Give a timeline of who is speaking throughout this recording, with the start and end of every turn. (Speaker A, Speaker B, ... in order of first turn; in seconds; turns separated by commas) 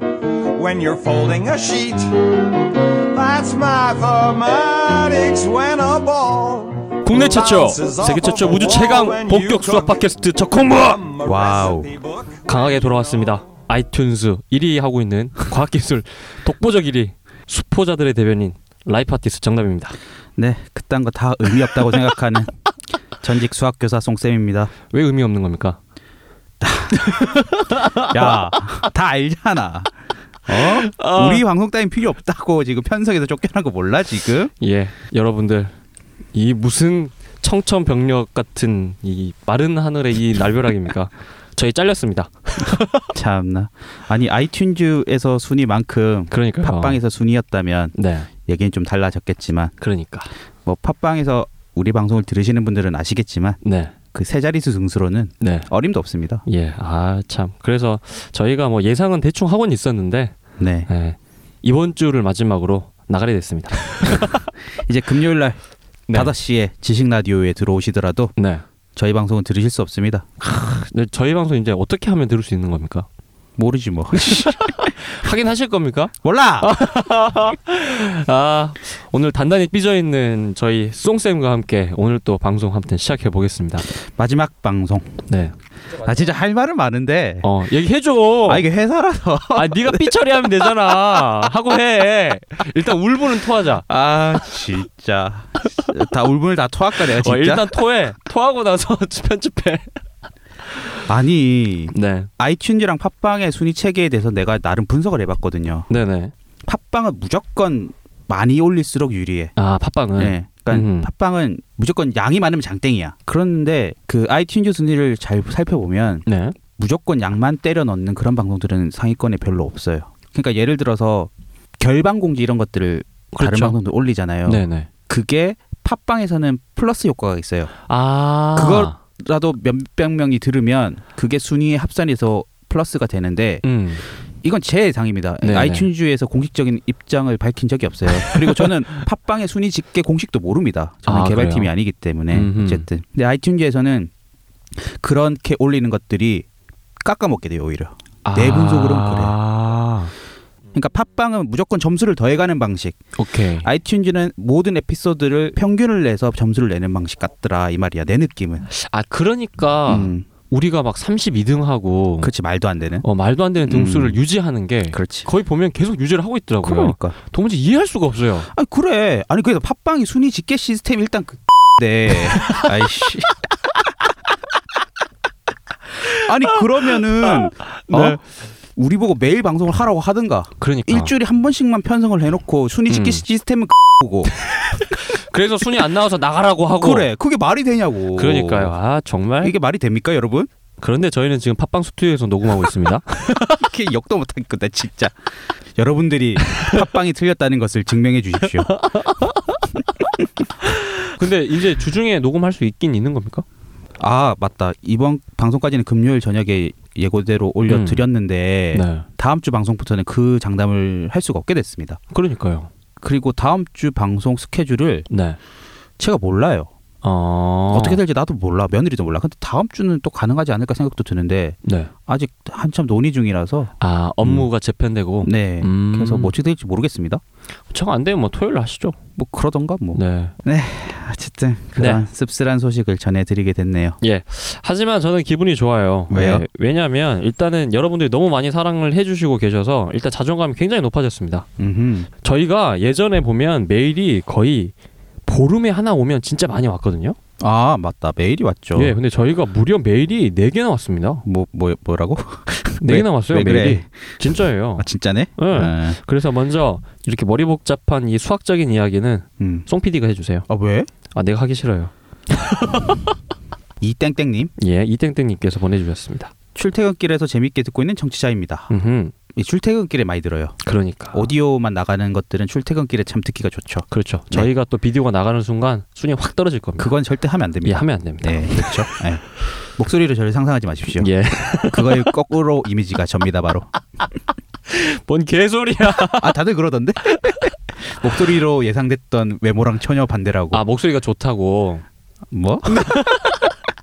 Speaker A: 0.5-2.2, Speaker A: 2.8-10.0, Speaker B: 7.0-11.0, Speaker A: 10.7-13.3, Speaker C: 11.2-11.9, Speaker B: 12.5-20.0, Speaker C: 20.4-22.5, Speaker C: 23.2-24.7, Speaker B: 24.9-25.8, Speaker C: 26.6-27.1, Speaker B: 27.0-28.5, Speaker C: 28.0-29.9, Speaker C: 30.5-34.5, Speaker B: 30.5-31.4, Speaker B: 34.6-35.7, Speaker B: 36.3-43.1, Speaker C: 43.1-47.9, Speaker B: 46.3-47.0, Speaker B: 47.9-48.3, Speaker C: 48.5-49.7, Speaker B: 49.8-50.3, Speaker C: 50.6-53.6, Speaker B: 53.6-53.9, Speaker C: 54.1-56.4, Speaker B: 55.4-55.7, Speaker B: 56.5-60.3, Speaker C: 60.6-60.9, Speaker B: 60.9-64.4, Speaker C: 64.1-68.3, Speaker B: 68.3-68.6, Speaker C: 68.9-70.3, Speaker B: 70.4-73.1, Speaker C: 73.6-74.9, Speaker B: 74.1-83.9, Speaker C: 76.2-76.7, Speaker C: 83.9-85.2, Speaker B: 85.3-85.5, Speaker C: 85.9-87.5, Speaker B: 87.4-88.6, Speaker C: 88.5-90.2, Speaker B: 89.5-93.8, Speaker C: 93.8-97.8, Speaker B: 97.2-99.9, Speaker C: 101.0-105.9, Speaker B: 101.9-102.3, Speaker B: 105.9-106.3, Speaker C: 106.7-109.5, Speaker B: 109.5-111.1, Speaker C: 110.2-127.7, Speaker B: 116.2-116.6, Speaker B: 123.3-123.8, Speaker B: 124.5-124.9, Speaker B: 127.9-129.0, Speaker C: 128.5-133.6, Speaker B: 133.6-134.0, Speaker C: 134.4-144.1, Speaker B: 135.4-135.9, Speaker B: 138.2-138.7, Speaker B: 141.1-141.7, Speaker B: 142.3-142.8, Speaker C: 144.7-146.4, Speaker C: 147.0-149.3, Speaker B: 148.2-150.1, Speaker C: 150.7-153.0, Speaker B: 153.2-153.7, Speaker C: 153.6-158.7, Speaker B: 158.7-162.3, Speaker C: 159.9-160.2, Speaker C: 162.2-163.0, Speaker B: 163.0-168.5, Speaker C: 163.7-164.2, Speaker C: 164.9-165.3, Speaker C: 166.6-167.2, Speaker C: 168.5-173.3, Speaker B: 172.1-173.1, Speaker C: 176.2-178.2, Speaker B: 177.2-178.2, Speaker C: 178.8-184.3, Speaker B: 180.6-181.1, Speaker B: 182.9-183.2, Speaker B: 184.4-187.1, Speaker C: 186.8-188.7, Speaker B: 188.2-189.5, Speaker C: 189.4-190.5, Speaker B: 190.8-193.7, Speaker C: 193.6-195.2, Speaker C: 195.8-198.7, Speaker B: 196.5-196.7, Speaker B: 198.6-199.6, Speaker B: 201.0-203.4, Speaker C: 204.0-212.0, Speaker B: 207.7-208.1, Speaker B: 208.7-209.1, Speaker B: 212.1-212.7, Speaker C: 213.0-215.1, Speaker B: 215.1-215.4, Speaker C: 216.0-216.7, Speaker B: 217.0-218.0, Speaker C: 217.7-224.5, Speaker B: 221.6-221.9, Speaker B: 223.8-226.3, Speaker C: 225.2-227.2, Speaker B: 227.7-229.0, Speaker C: 229.2-234.0, Speaker B: 229.9-230.3, Speaker B: 231.8-232.0, Speaker B: 234.0-241.4, Speaker C: 236.1-236.4, Speaker C: 241.6-242.1, Speaker B: 242.2-244.7, Speaker B: 245.2-247.2, Speaker C: 247.4-248.9, Speaker B: 248.8-251.2, Speaker C: 251.2-256.0, Speaker B: 252.8-260.5, Speaker C: 259.4-259.7, Speaker C: 260.5-260.9, Speaker B: 261.1-263.1, Speaker C: 263.8-264.5, Speaker B: 264.6-266.3, Speaker C: 266.5-268.7, Speaker B: 268.7-269.1, Speaker C: 269.3-270.6, Speaker B: 270.6-271.3, Speaker C: 271.1-274.5, Speaker B: 273.9-276.9, Speaker C: 276.8-281.1, Speaker B: 277.6-279.0, Speaker B: 281.0-282.1, Speaker C: 281.7-283.7, Speaker B: 284.7-286.4, Speaker C: 286.0-290.6, Speaker B: 287.0-287.5, Speaker B: 290.5-291.8, Speaker C: 292.3-293.1, Speaker B: 292.7-293.5